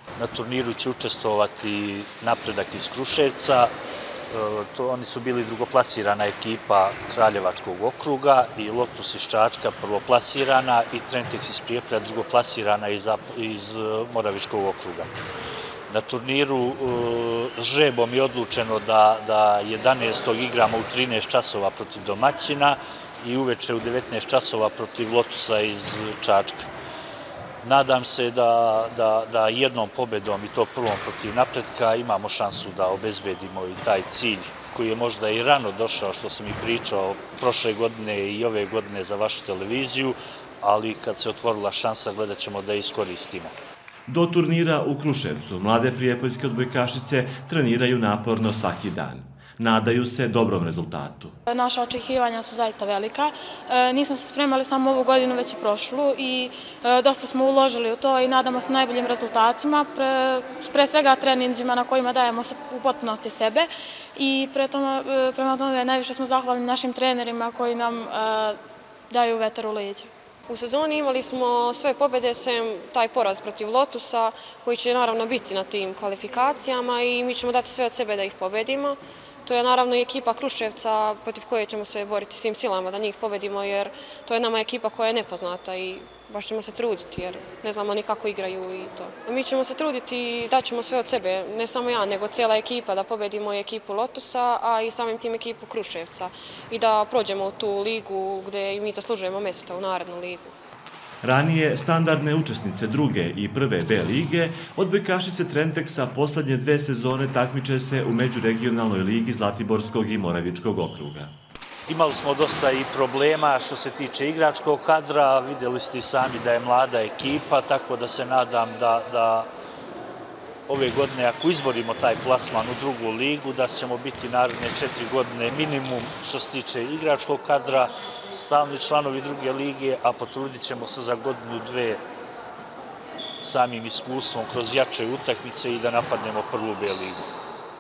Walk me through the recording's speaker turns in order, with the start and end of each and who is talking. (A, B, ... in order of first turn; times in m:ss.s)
0:00.2-0:03.7 A
0:04.3-0:15.1 A
0:15.9-0:26.7 A
0:27.6-0:43.6 A
0:44.1-0:51.4 B
0:51.5-1:08.6 C
1:09.1-1:10.1 C
1:10.5-1:40.5 D
1:41.2-1:51.3 B
1:51.9-1:59.5 A
2:00.7-2:12.0 A
2:13.4-2:17.3 A